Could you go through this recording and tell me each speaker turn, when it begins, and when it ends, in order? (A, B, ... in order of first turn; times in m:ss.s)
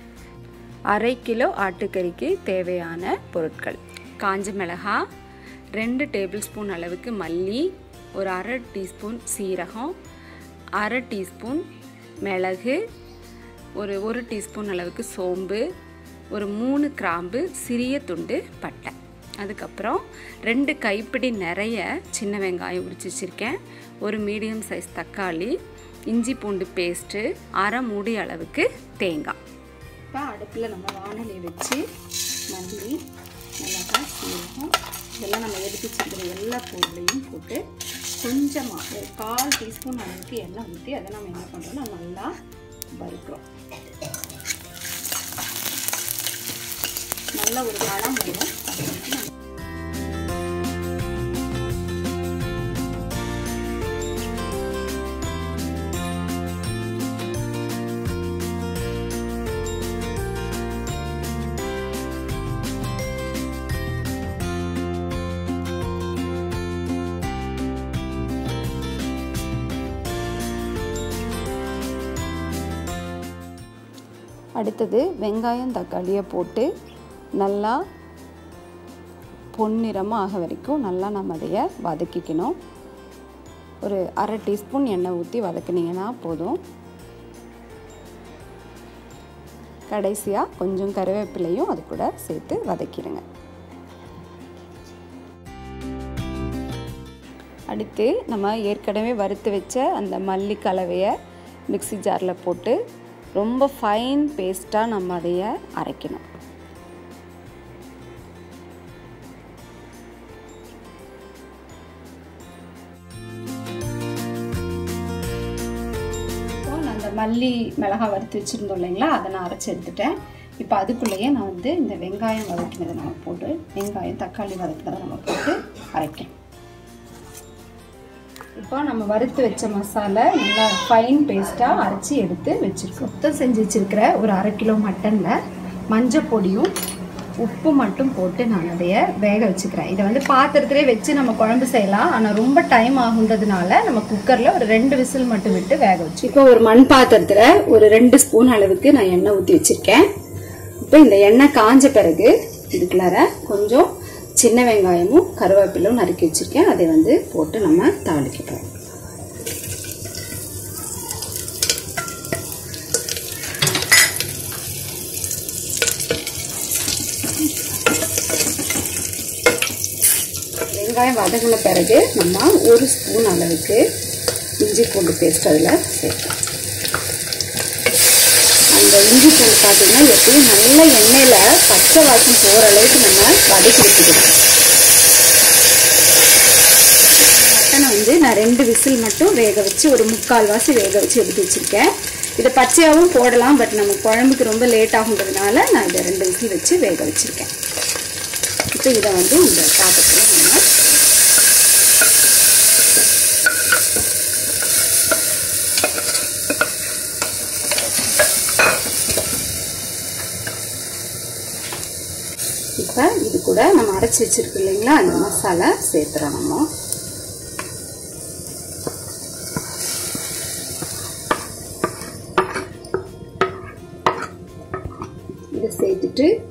0:00.9-0:05.0 A
0:05.8-0:10.0 A
0:10.8-0:11.6 A
0:12.2-0:12.8 A
0:13.8-0:15.6 A
0:16.3-0:25.6 A
0:26.1-0:29.4 A
0:30.1-0:31.8 A
0:32.5-0:33.0 A
0:33.6-0:37.6 A
0:38.2-0:42.3 A
0:43.0-0:43.4 A
0:47.4-0:49.3 A
1:14.6-1:16.7 A
1:17.4-1:17.8 A
1:19.5-1:22.6 A
1:23.8-1:26.6 A
1:29.9-1:33.2 A
1:37.7-1:41.1 A
1:41.7-1:42.8 A
1:43.4-1:46.3 A
1:56.6-2:06.3 A
2:08.6-2:15.4 A
2:15.9-2:16.7 A
2:17.4-2:30.1 A
2:30.8-2:38.7 A
2:50.8-2:53.8 A
2:54.6-2:56.4 A
2:58.7-3:04.4 A
3:07.2-3:17.5 A
3:18.7-3:20.7 A
3:32.8-3:36.7 A
3:45.5-3:46.3 A